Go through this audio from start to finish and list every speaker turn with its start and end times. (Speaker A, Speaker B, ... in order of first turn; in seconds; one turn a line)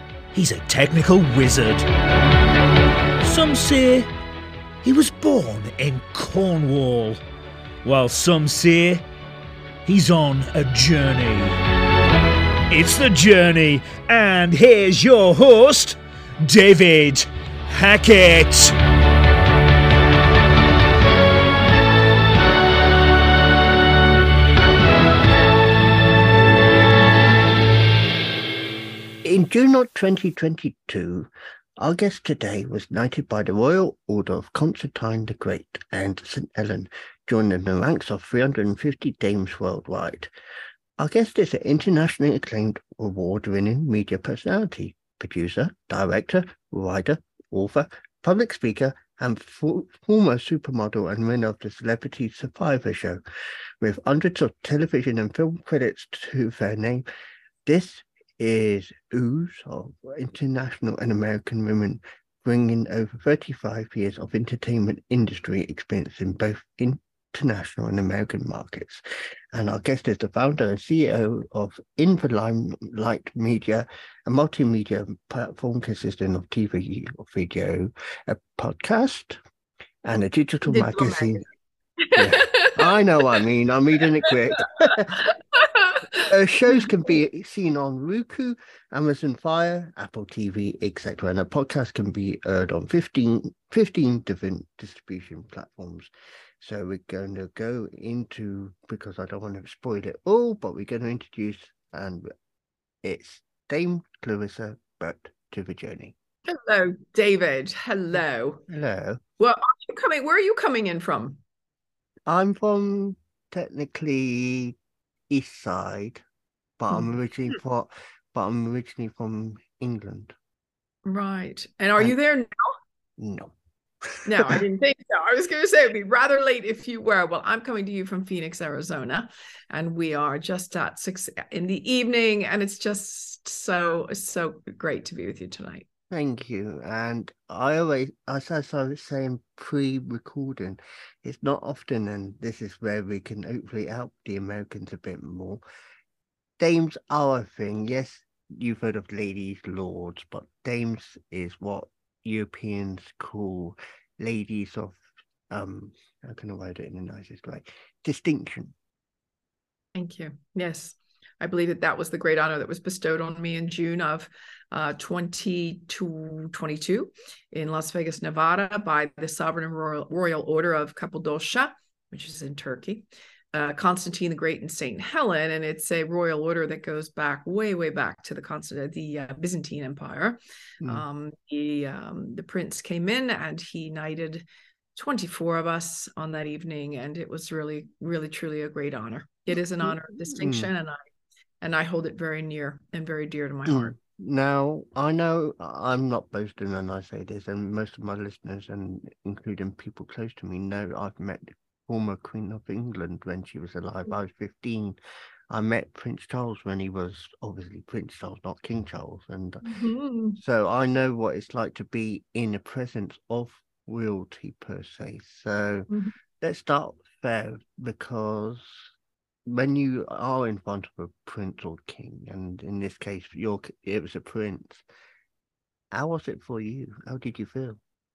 Speaker A: 0.3-1.9
Speaker A: 3.2-4.1
Speaker A: 4.8-7.2
Speaker A: 7.8-9.0
Speaker A: 9.8-11.6
Speaker A: 12.7-18.8
Speaker B: 29.2-40.3
Speaker B: 41.0-53.2
Speaker B: 53.8-57.1
Speaker B: 57.7-79.4
Speaker B: 80.0-81.5
Speaker C: 80.7-81.5
Speaker C: 82.0-83.4
Speaker B: 82.2-85.2
Speaker C: 85.2-86.9
Speaker B: 86.3-102.3
Speaker B: 103.0-106.2
Speaker C: 106.5-108.6
Speaker B: 108.1-109.2
Speaker C: 109.4-111.4
Speaker B: 112.3-114.8
Speaker B: 115.3-116.2
Speaker B: 116.8-120.3
Speaker C: 121.0-122.7
Speaker B: 123.2-123.5
Speaker B: 124.0-124.6
Speaker C: 124.2-135.9
Speaker B: 136.1-145.6
Speaker B: 146.6-158.7
Speaker C: 159.9-184.4
Speaker C: 184.9-191.0
Speaker B: 189.8-190.7
Speaker C: 191.6-193.9
Speaker B: 193.7-205.0
Speaker B: 205.5-209.7
Speaker C: 209.6-210.4
Speaker B: 210.4-218.9
Speaker B: 219.4-224.8
Speaker B: 225.9-227.8